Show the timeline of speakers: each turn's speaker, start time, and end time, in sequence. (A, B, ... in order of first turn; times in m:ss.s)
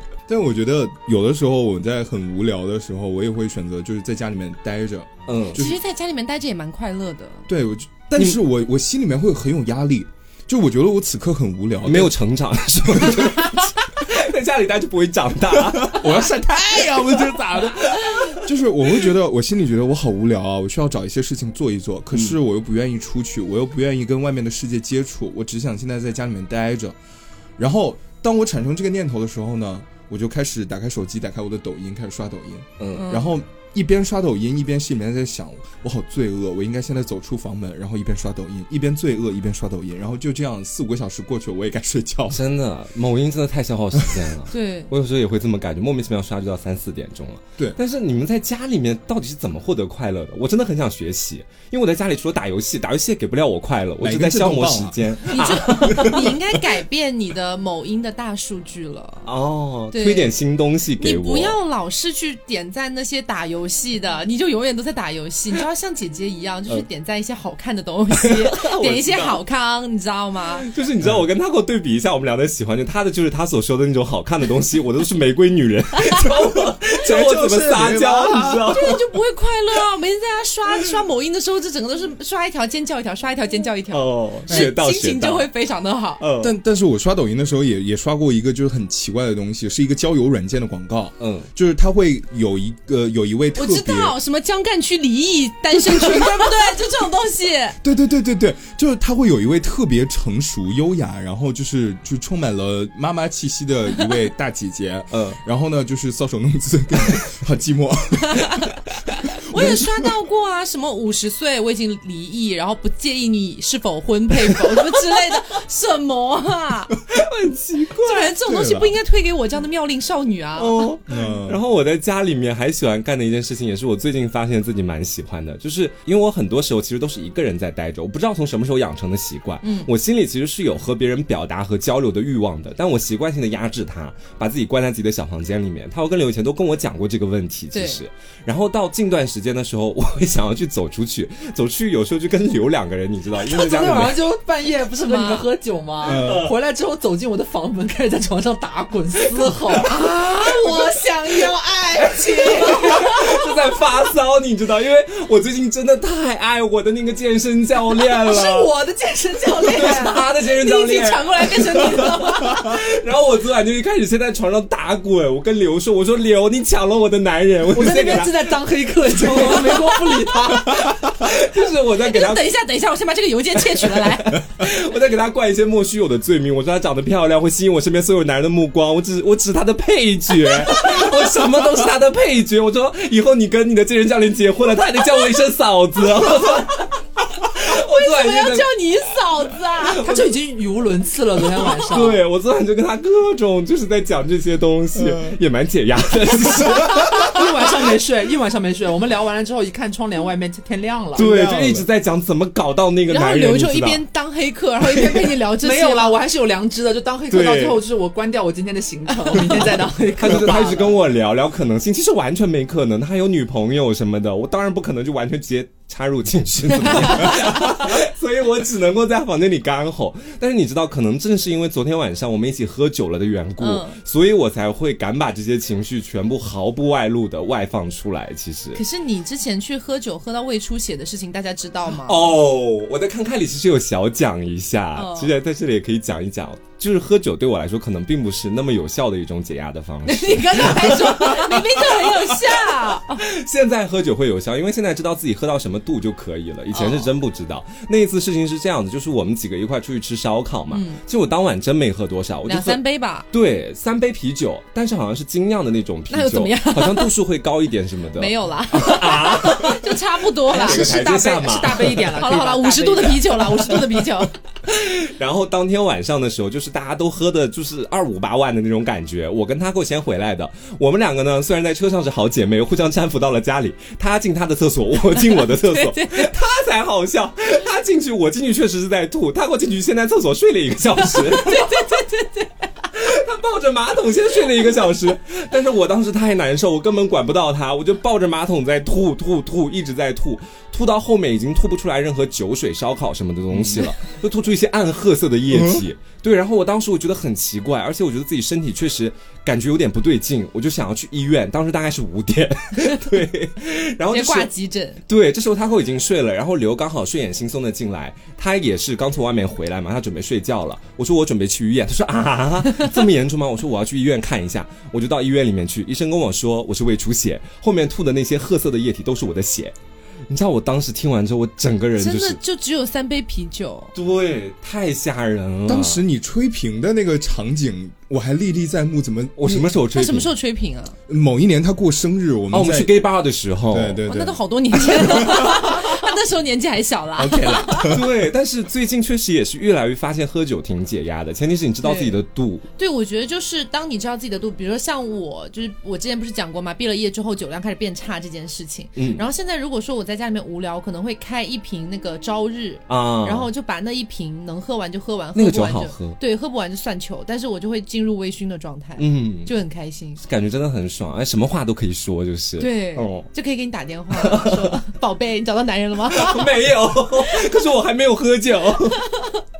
0:00.3-0:05.7 A
0:05.3-0:05.6 B
0:05.5-0:07.5 C
0:07.5-0:12.1 A
0:11.8-0:16.3 B
0:13.0-0:13.3 A
0:15.5-0:27.0 A
0:18.0-0:18.3 B
0:27.6-0:42.4 A
0:32.8-0:33.0 B
0:33.0-0:33.3 C
0:42.3-0:56.4 B
0:44.0-0:44.2 A
0:44.5-0:44.9 C
0:54.0-0:55.0 A
0:55.3-0:59.3 C
0:59.2-1:01.6 B
0:59.9-1:00.3 C
1:01.0-1:10.7 C
1:08.1-1:09.4 B
1:10.6-1:19.1 B
1:17.0-1:18.8 A
1:18.7-1:26.2 C
1:23.9-1:25.5 B
1:26.2-1:26.5 B
1:26.4-1:34.2 A
1:31.2-1:31.5 B
1:33.6-1:37.8 C
1:35.7-1:36.5 A
1:37.8-1:48.6 A
1:45.1-1:45.4 B
1:48.3-1:48.7 C
1:49.2-1:50.1 A
1:49.4-1:57.0 C
1:57.1-1:58.3 B
1:58.0-2:00.9 C
1:58.4-1:58.9 A
2:00.6-2:24.2 B
2:01.1-2:01.6 A
2:09.6-2:09.9 C
2:17.7-2:18.0 C
2:23.4-2:33.3 D
2:25.0-2:25.5 C
2:26.0-2:26.5 A
2:26.0-2:26.5 B
2:29.8-2:31.5 C
2:31.9-2:38.7 B
2:32.1-2:33.3 C
2:38.0-2:40.2 D
2:39.6-2:49.7 B
2:39.6-2:42.8 C
2:47.7-2:50.8 D
2:49.6-2:50.6 C
2:51.1-2:52.5 B
2:52.0-2:54.5 C
2:53.7-3:08.7 B
3:00.7-3:01.1 C
3:07.6-3:10.1 C
3:09.8-3:10.3 B
3:10.0-3:12.2 D
3:11.6-3:17.4 B
3:15.0-3:15.3 A
3:16.7-3:21.3 D
3:21.1-3:21.9 A
3:21.1-3:24.0 B
3:23.1-3:26.2 C
3:24.8-3:31.0 D
3:27.3-3:27.8 B
3:30.2-3:48.8 B
3:36.8-3:37.6 C
3:43.6-3:44.0 C
3:48.7-3:52.3 C
3:51.9-4:02.5 B
3:55.0-3:55.3 C
4:00.0-4:03.2 C
4:03.2-4:20.0 B
4:06.7-4:07.1 C
4:10.7-4:11.0 C
4:12.4-4:13.3 C
4:16.1-4:17.1 C
4:18.1-4:24.3 C
4:20.5-4:22.1 B
4:20.5-4:23.8 D
4:24.6-4:42.0 B
4:35.3-4:36.3 C
4:41.0-4:42.5 C
4:42.9-5:04.5 B
4:53.5-4:53.9 A
4:55.5-4:55.8 A
5:04.1-5:05.0 C
5:05.1-5:19.7 B
5:20.3-5:22.4 B
5:22.0-5:23.9 C
5:23.9-5:26.0 B
5:25.7-5:29.7 A
5:29.4-5:30.3 B
5:29.7-5:31.0 C
5:31.1-5:33.0 A
5:32.5-5:34.0 B
5:33.7-5:35.7 A
5:34.1-5:38.0 C
5:37.2-5:38.1 A
5:37.8-5:42.6 B
5:41.8-5:42.2 C
5:42.8-6:00.2 C
5:49.0-5:49.2 B
5:52.9-5:53.5 B
5:55.4-5:56.2 B
5:59.0-5:59.5 B
6:00.2-6:03.3 B
6:02.6-6:06.6 C
6:04.1-6:04.8 B
6:06.1-6:09.0 B